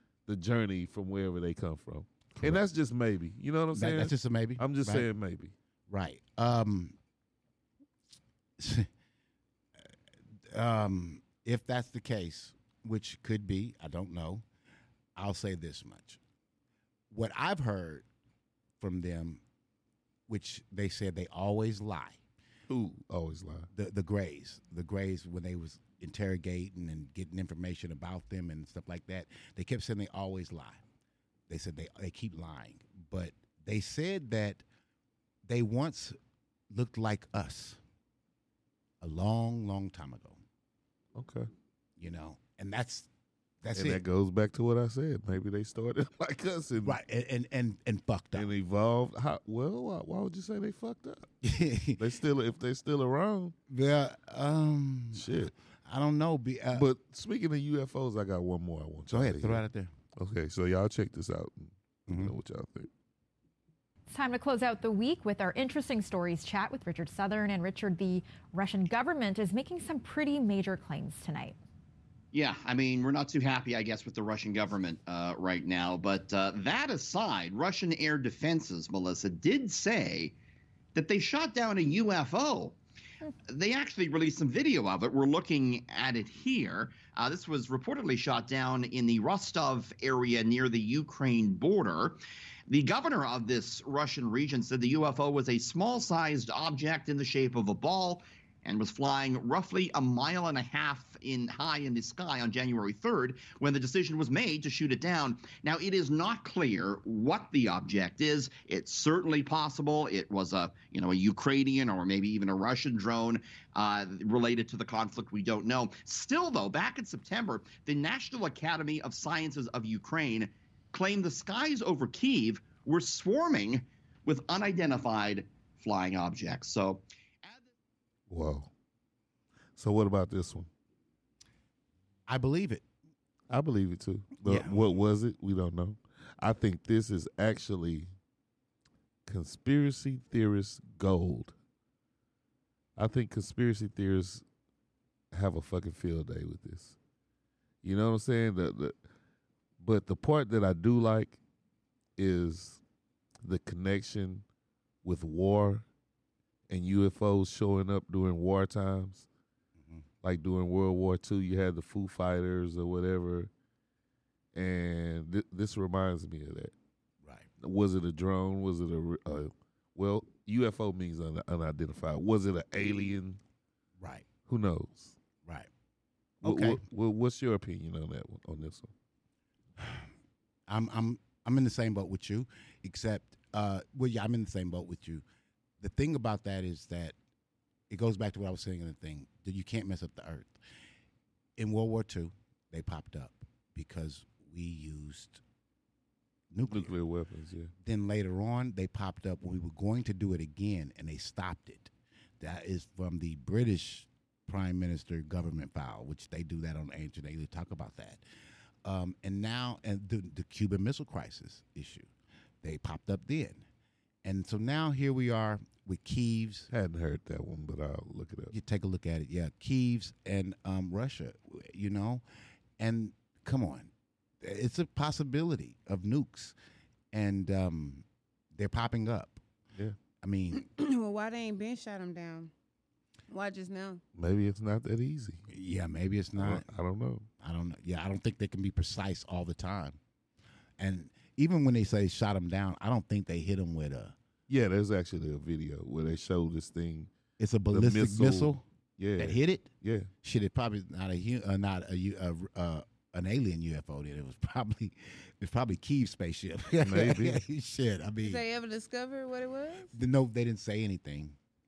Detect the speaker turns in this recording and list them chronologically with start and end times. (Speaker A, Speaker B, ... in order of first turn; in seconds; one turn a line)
Speaker A: 0.3-5.5
Speaker B: 3.7-5.0
Speaker B: 5.9-7.0
Speaker B: 8.6-8.9
Speaker B: 10.5-14.4
Speaker B: 15.2-16.2
Speaker B: 17.1-18.0
Speaker B: 18.8-19.4
Speaker B: 20.3-22.2
Speaker A: 22.7-23.7
Speaker B: 23.7-30.8
Speaker B: 31.5-34.6
Speaker B: 35.5-36.2
Speaker B: 36.7-37.8
Speaker B: 39.0-40.4
Speaker A: 41.1-41.5
Speaker B: 42.0-43.1
Speaker B: 43.6-44.0
Speaker A: 43.7-47.0
Speaker B: 46.8-48.5
Speaker A: 48.3-51.3
Speaker B: 51.4-52.0
Speaker A: 52.0-53.5
Speaker B: 53.7-56.9
Speaker A: 55.1-55.5
Speaker A: 56.7-59.6
Speaker B: 59.1-59.9
Speaker A: 60.2-62.9
Speaker B: 62.1-62.3
Speaker C: 64.1-71.6
Speaker D: 72.3-80.3
Speaker D: 80.9-82.8
Speaker D: 83.5-127.6
Speaker A: 128.3-128.7
Speaker A: 129.8-130.7
Speaker B: 132.3-132.8
Speaker A: 133.5-138.1
Speaker B: 134.4-134.8
Speaker A: 139.2-141.5
Speaker A: 143.0-144.4
Speaker A: 145.3-146.9
Speaker A: 147.8-148.9
Speaker A: 149.8-151.4
Speaker A: 152.2-152.8
Speaker A: 153.4-154.4
Speaker A: 155.0-155.8
Speaker A: 156.7-159.3
Speaker B: 159.8-160.0
Speaker A: 160.2-163.5
Speaker A: 164.5-166.7
Speaker A: 167.6-173.4
Speaker B: 174.0-174.3
Speaker A: 174.5-175.2
Speaker B: 176.4-176.8
Speaker A: 176.4-178.9
Speaker B: 179.8-180.1
Speaker B: 180.7-185.2
Speaker B: 185.8-187.1
Speaker B: 187.9-190.6
Speaker B: 191.6-195.4
Speaker B: 196.5-196.9
Speaker A: 196.6-197.7
Speaker B: 197.8-208.2
Speaker B: 208.8-212.1
Speaker B: 212.6-213.6
Speaker B: 214.2-216.7
Speaker A: 216.7-218.5
Speaker B: 218.5-222.2
Speaker B: 222.8-226.6
Speaker B: 227.1-229.4
Speaker B: 230.2-230.6
Speaker E: 230.5-232.5
Speaker E: 233.3-234.0
Speaker A: 234.2-235.4
Speaker B: 235.5-236.6
Speaker A: 236.4-237.3
Speaker B: 237.4-240.0
Speaker B: 240.8-244.1
Speaker A: 244.5-247.1
Speaker B: 247.4-248.6
Speaker A: 247.7-250.1
Speaker B: 249.2-249.7
Speaker B: 250.2-258.4
Speaker A: 256.8-257.4
Speaker E: 258.2-259.9
Speaker B: 259.9-261.4